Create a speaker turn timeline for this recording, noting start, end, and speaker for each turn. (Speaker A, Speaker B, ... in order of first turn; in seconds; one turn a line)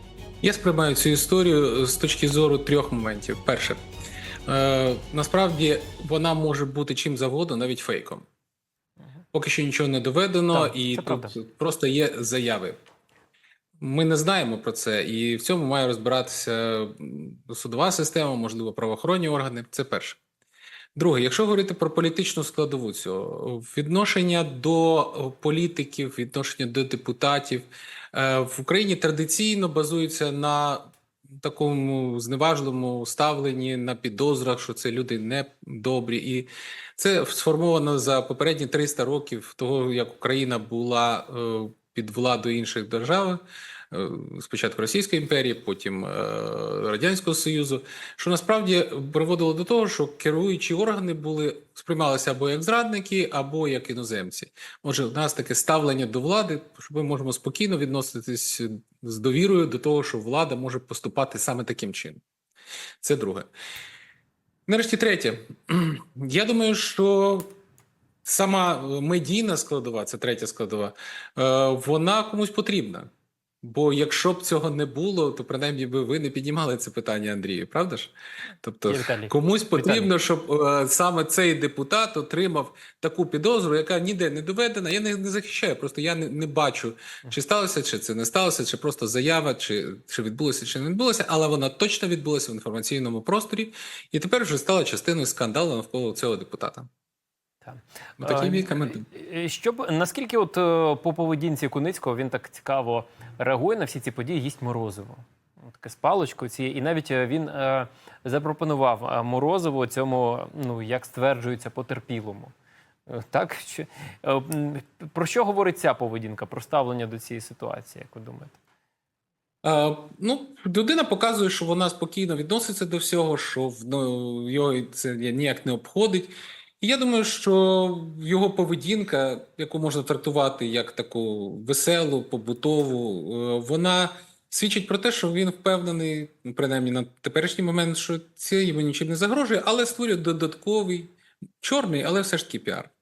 Speaker A: 0.4-3.8
Speaker A: 4.5-8.3
Speaker A: 9.3-12.8
Speaker B: 10.5-11.4
Speaker A: 13.8-20.2
Speaker A: 20.9-62.2
Speaker A: 63.0-63.5
Speaker A: 64.7-67.5
Speaker A: 68.2-73.1
Speaker A: 73.6-96.9
Speaker B: 78.9-80.1
Speaker B: 97.7-112.5
Speaker A: 98.2-99.1
Speaker B: 113.1-118.6
Speaker A: 119.6-142.9